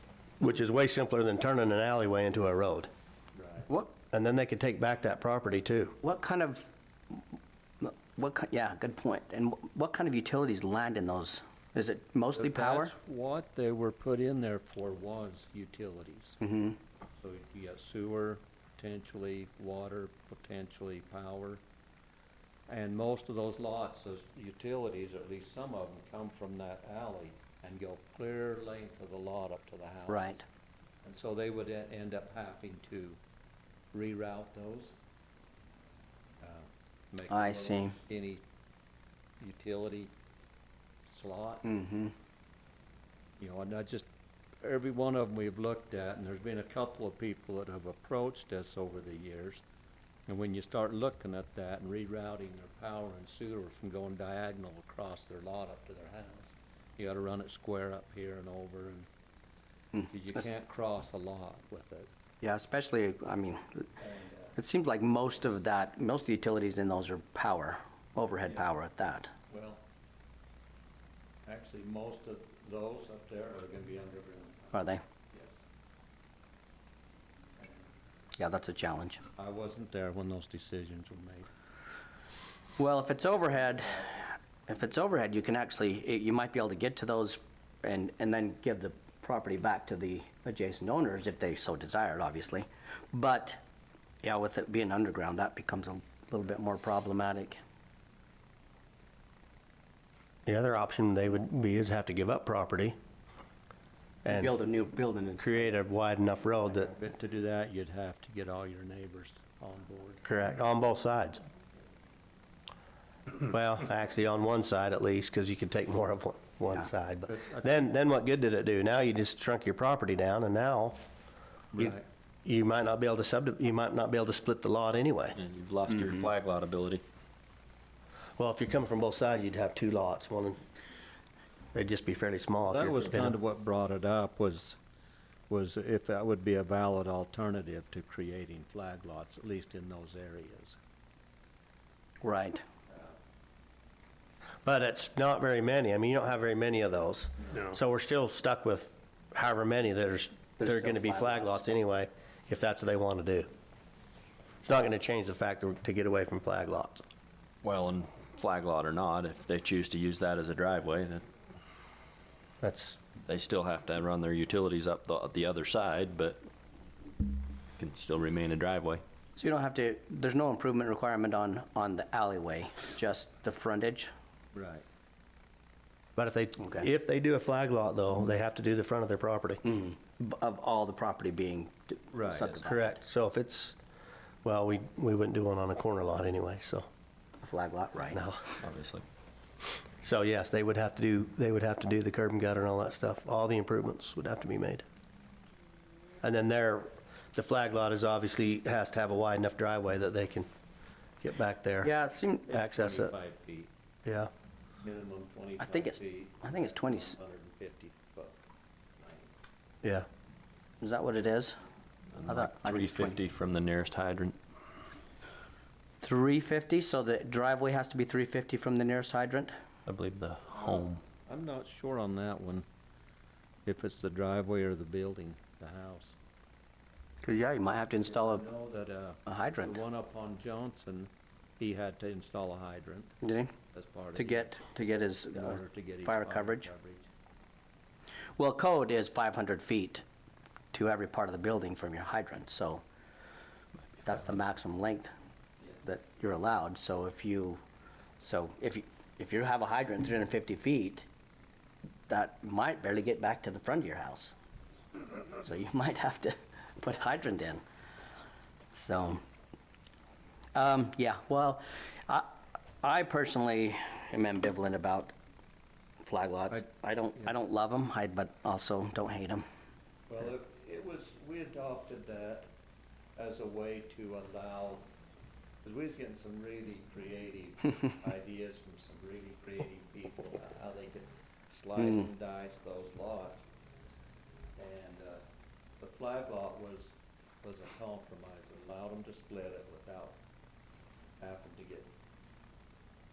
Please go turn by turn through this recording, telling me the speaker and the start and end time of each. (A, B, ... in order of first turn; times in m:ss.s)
0:00.4-0:02.9 A
0:03.4-0:03.6 B
0:03.7-0:03.9 C
0:04.1-0:06.0 A
0:06.0-0:07.2 C
0:07.8-0:12.9 C
0:12.4-0:16.4 B
0:16.4-0:16.8 C
0:17.2-0:21.6 B
0:22.7-0:30.4 B
0:30.1-0:30.4 C
0:31.0-0:33.2 B
0:33.9-0:34.9 B
0:36.4-0:38.4 B
0:37.3-0:38.0 C
0:39.4-0:40.1 B
0:41.1-0:41.7 B
0:41.6-0:42.1 C
0:43.4-0:44.0 B
0:44.6-0:49.6 B
0:50.3-0:59.1 B
0:59.9-1:00.4 C
1:00.1-1:02.1 B
1:02.4-1:09.3 C
1:04.0-1:04.4 B
1:09.5-1:09.8 B
1:11.4-1:15.6 B
1:14.7-1:15.0 C
1:17.6-1:17.8 B
1:18.4-1:19.2 C
1:19.4-1:21.5 B
1:22.8-1:33.6 C
1:34.2-1:37.6 C
1:40.5-1:42.9 A
1:44.2-1:45.8 C
1:44.2-1:44.5 A
1:45.4-1:46.9 A
1:46.6-1:50.2 B
1:50.2-1:51.4 A
1:53.4-2:01.0 A
1:57.3-1:57.9 B
2:01.7-2:02.0 B
2:01.8-2:05.4 A
2:05.4-2:07.0 D
2:08.4-2:10.6 A
2:11.7-2:13.4 A
2:12.7-2:14.8 B
2:15.5-2:20.8 B
2:22.2-2:22.6 C
2:24.6-2:33.5 A
2:30.6-2:31.6 C
2:34.6-2:37.0 A
2:37.6-2:41.2 D
2:42.6-2:43.0 A
2:43.2-2:46.4 D
2:47.8-2:49.0 D
2:49.4-2:54.1 C
2:54.5-2:54.8 B
2:56.2-2:59.6 A
2:59.6-3:03.0 C
3:02.1-3:02.6 B
3:02.6-3:03.8 A
3:04.4-3:06.8 A
3:07.4-3:08.2 C
3:08.1-3:08.6 A
3:08.6-3:09.0 D
3:10.0-3:14.8 A
3:16.2-3:20.5 A
3:21.2-3:21.9 A
3:21.8-3:22.5 C
3:22.5-3:23.7 B
3:22.5-3:23.1 A
3:24.0-3:24.3 A
3:24.8-3:28.4 B
3:25.6-3:27.2 C
3:29.0-3:29.3 B
3:30.8-3:31.6 C
3:32.2-3:34.4 D
3:32.2-3:33.2 C
3:36.0-3:39.5 C
3:39.9-3:41.0 D
3:40.5-3:42.6 B
3:43.6-3:46.2 B
3:47.2-3:48.4 C
3:48.0-3:53.2 B
3:49.3-3:49.8 C
3:53.2-3:53.5 C
3:53.7-3:57.1 B
3:54.1-3:56.7 C
3:58.4-4:00.0 C
4:00.7-4:02.8 C
4:04.0-4:05.1 C
4:05.8-4:07.6 C
4:08.2-4:11.0 C
4:12.1-4:14.3 C
4:15.3-4:17.6 C
4:18.7-4:19.2 C
4:20.5-4:25.1 C
4:26.0-4:29.4 C
4:30.1-4:32.5 B
4:33.2-4:34.8 B
4:35.6-4:43.4 B
4:41.8-4:42.0 C
4:44.6-4:45.2 B
4:45.8-4:50.2 B
4:51.2-4:51.9 B